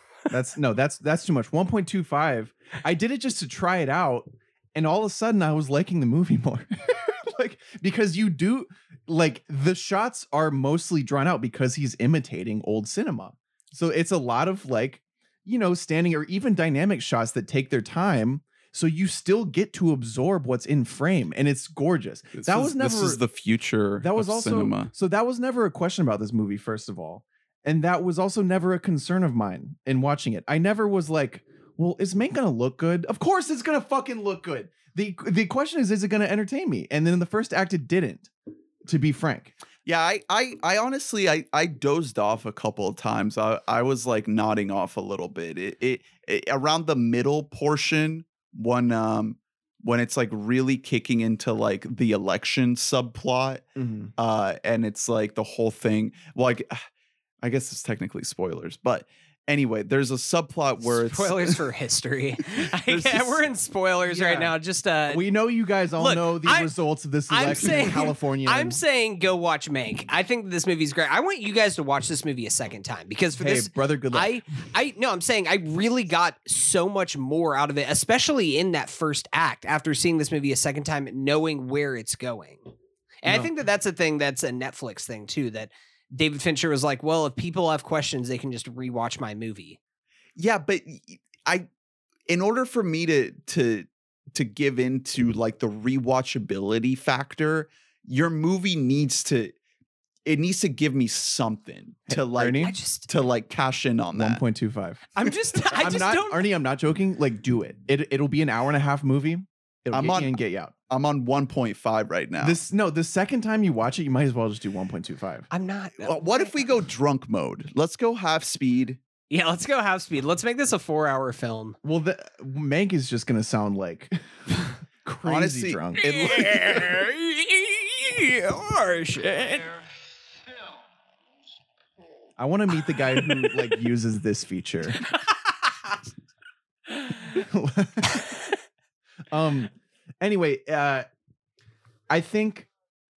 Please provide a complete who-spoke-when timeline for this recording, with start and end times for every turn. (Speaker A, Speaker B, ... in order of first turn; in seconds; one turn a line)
Speaker A: 0.3-23.2
Speaker B: 22.4-24.9
Speaker A: 24.0-38.3
Speaker A: 38.9-39.6
Speaker B: 39.9-53.6
Speaker A: 53.8-54.1
Speaker B: 54.2-56.9
Speaker B: 57.4-61.6
Speaker C: 60.8-65.2
Speaker A: 62.9-63.5
Speaker A: 64.1-64.5
Speaker A: 65.1-68.8
Speaker C: 66.0-66.7
Speaker C: 67.3-82.7
Speaker A: 73.3-74.4
Speaker C: 83.2-89.8
Speaker A: 83.2-83.5
Speaker B: 90.4-91.7
Speaker B: 92.3-99.5
Speaker B: 100.3-104.4
Speaker A: 102.1-102.8
Speaker C: 102.6-103.1
Speaker A: 104.2-105.1
Speaker C: 105.2-106.5
Speaker A: 105.7-110.7
Speaker B: 109.9-110.4
Speaker B: 110.9-112.6
Speaker A: 112.4-115.5
Speaker C: 115.5-116.7
Speaker B: 116.0-119.0
Speaker C: 119.3-121.8
Speaker A: 121.8-126.4
Speaker B: 125.2-126.6
Speaker C: 126.0-129.8
Speaker A: 132.4-135.0
Speaker C: 133.3-133.5
Speaker C: 135.1-135.9
Speaker A: 137.2-138.2
Speaker A: 139.3-141.1
Speaker A: 142.1-142.7